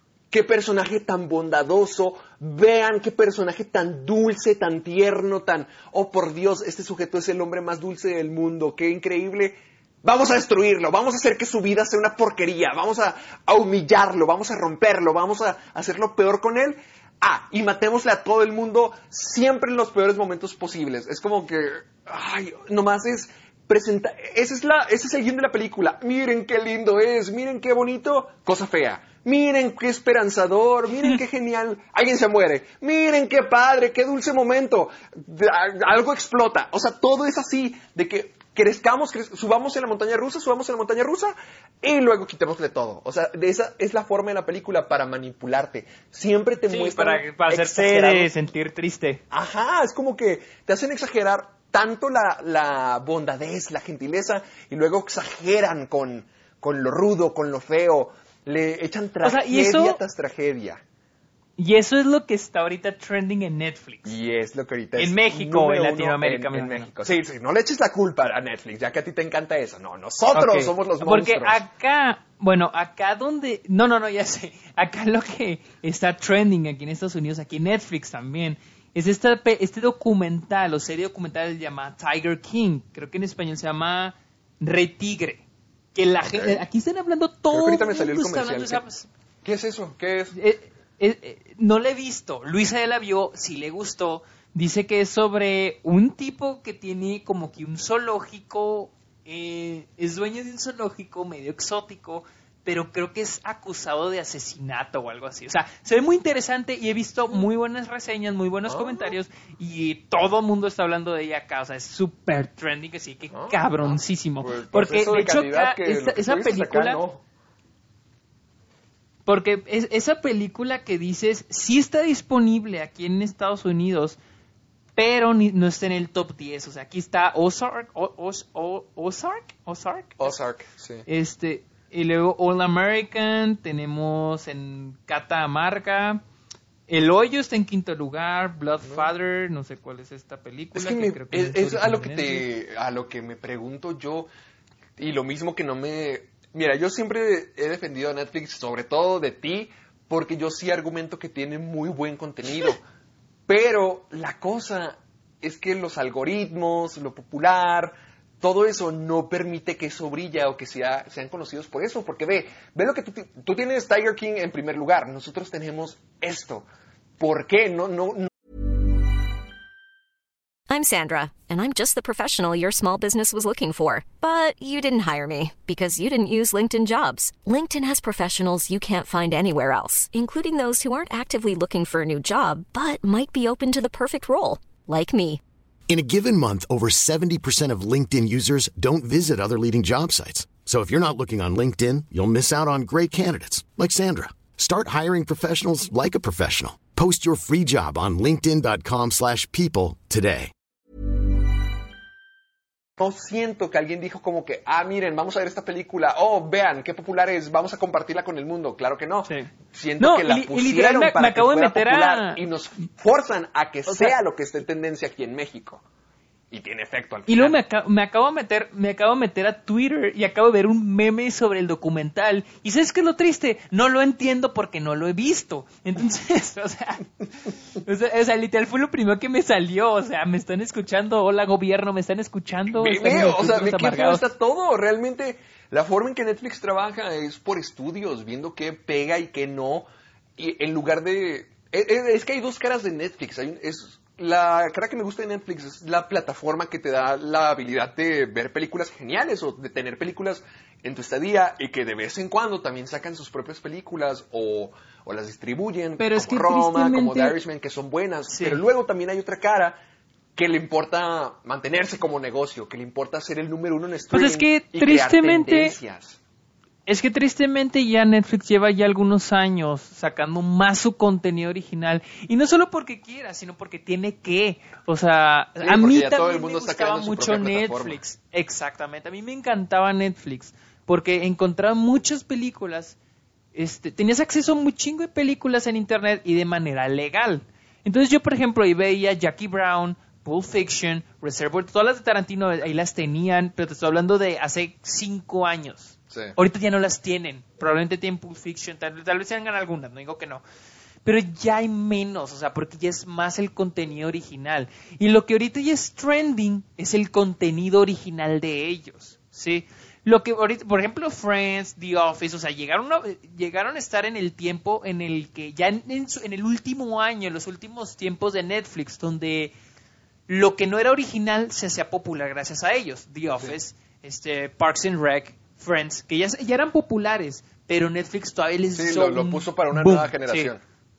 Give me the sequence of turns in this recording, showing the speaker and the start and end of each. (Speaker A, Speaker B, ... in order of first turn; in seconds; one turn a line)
Speaker A: 0.3-48.3
Speaker B: 46.7-49.2
Speaker A: 49.3-60.8
Speaker B: 59.2-60.0
Speaker B: 61.6-64.2
Speaker A: 64.0-71.7
Speaker B: 65.0-66.9
Speaker B: 70.3-85.4
Speaker B: 85.9-89.1
Speaker A: 86.2-86.6
Speaker A: 87.5-88.8
Speaker A: 89.4-90.4
Speaker B: 90.3-117.0
Speaker A: 108.7-109.2
Speaker A: 113.3-117.2
Speaker B: 119.2-124.2
Speaker B: 125.0-130.3
Speaker A: 130.2-131.1
Speaker B: 131.1-136.2
Speaker B: 136.9-142.5
Speaker A: 138.8-139.1
Speaker A: 140.7-144.3
Speaker A: 145.0-152.8
Speaker A: 153.5-166.7
Speaker A: 167.2-168.3
Speaker C: 170.7-185.4
Speaker D: 185.9-200.5
Speaker A: 203.0-215.8
Speaker B: 209.2-212.4
Speaker B: 213.9-214.1
Speaker A: 216.5-217.6
Speaker B: 217.3-227.1
Speaker B: 227.8-234.3
Speaker A: 232.7-239.8
Speaker A: 240.4-259.8
Speaker B: 256.0-257.4
Speaker B: 258.3-258.6
Speaker A: 260.4-266.2
Speaker B: 264.1-265.8
Speaker B: 266.9-282.9
Speaker A: 275.6-278.0
Speaker B: 283.5-300.4
Speaker A: 296.1-296.4
Speaker B: 301.0-319.5
Speaker B: 320.3-330.5
Speaker A: 328.7-330.6